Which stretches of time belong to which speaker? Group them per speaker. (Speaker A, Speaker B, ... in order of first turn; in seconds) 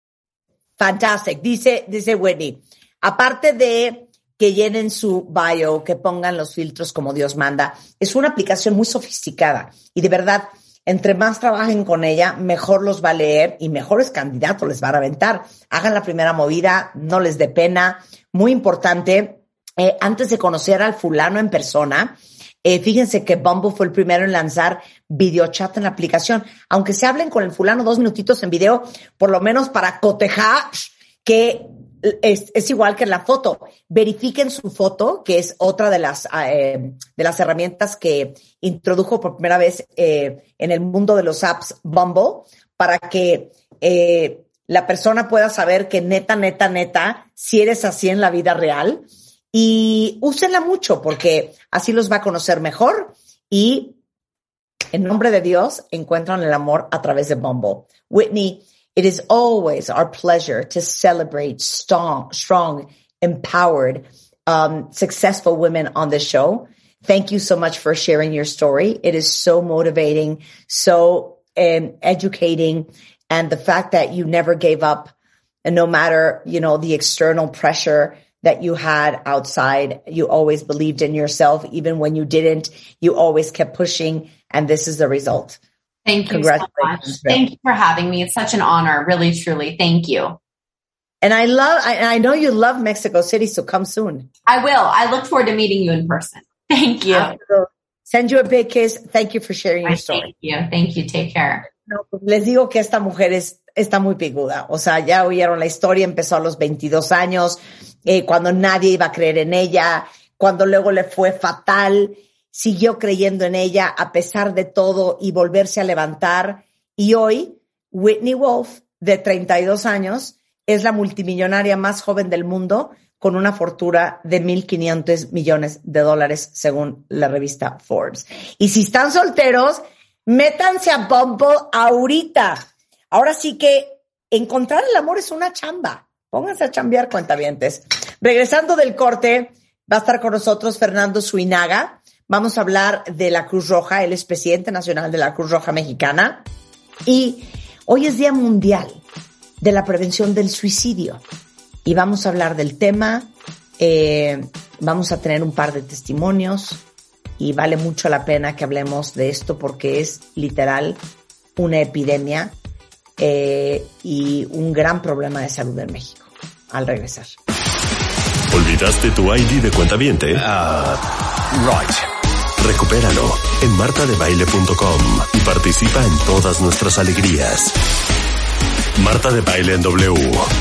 Speaker A: 0.8-54.0, 54.9-75.1, 75.7-85.6, 86.3-87.4, 91.2-94.3, 97.1-100.3, 101.7-146.5, 147.1-149.0, 149.6-151.2, 151.8-156.8, 157.4-161.0, 161.6-162.6, 163.2-167.3
Speaker B: 86.1-90.4, 94.5-97.4, 99.8-101.7
Speaker C: 168.5-172.0, 172.6-177.7, 179.0-180.5